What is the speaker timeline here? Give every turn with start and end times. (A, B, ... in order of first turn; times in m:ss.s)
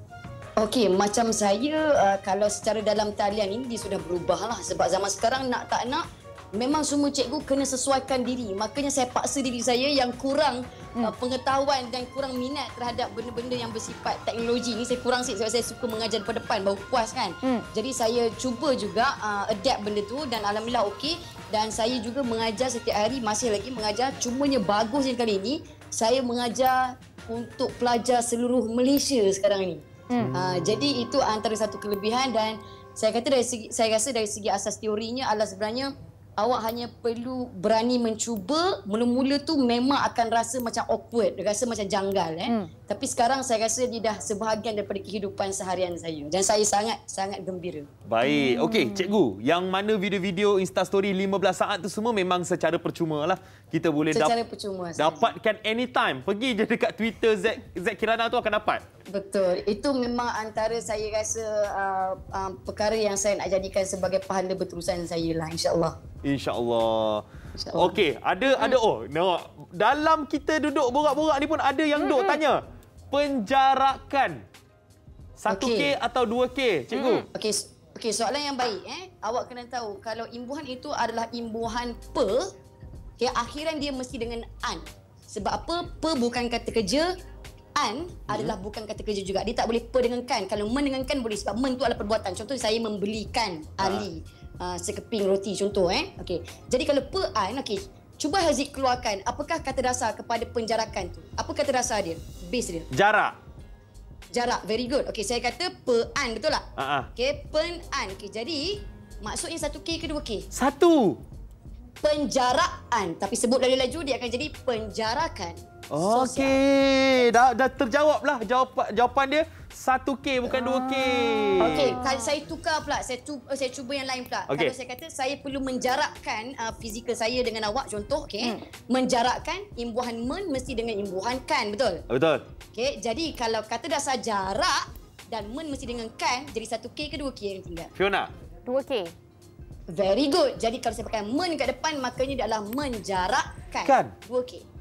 0:00.6-0:47.9 A
0:48.0-0:54.3 B
0:48.2-0:49.1 C
0:54.1-0:55.3 A
0:55.0-0:58.8 B
0:59.1-1:06.0 A
1:06.2-1:14.4 B
1:07.6-1:08.0 A
1:12.0-1:12.4 C
1:15.4-1:17.2 B
1:15.5-1:16.0 A
1:16.9-1:17.3 C
1:17.3-1:22.5 A
1:23.2-1:27.1 A
1:27.8-1:42.9 A
1:28.3-1:28.5 B
1:33.8-1:34.1 B
1:42.9-1:43.4 B
1:44.3-1:50.5 A
1:46.8-1:47.1 B
1:50.5-1:51.2 B
1:52.0-1:56.6 A
1:55.9-2:02.0 B
2:00.5-2:02.4 C
2:01.6-2:12.0 A
2:04.5-2:04.7 B
2:12.1-2:12.4 B
2:12.7-2:17.9 A
2:18.0-2:18.3 B
2:18.6-2:19.1 C
2:19.9-2:24.6 A
2:23.8-2:24.1 B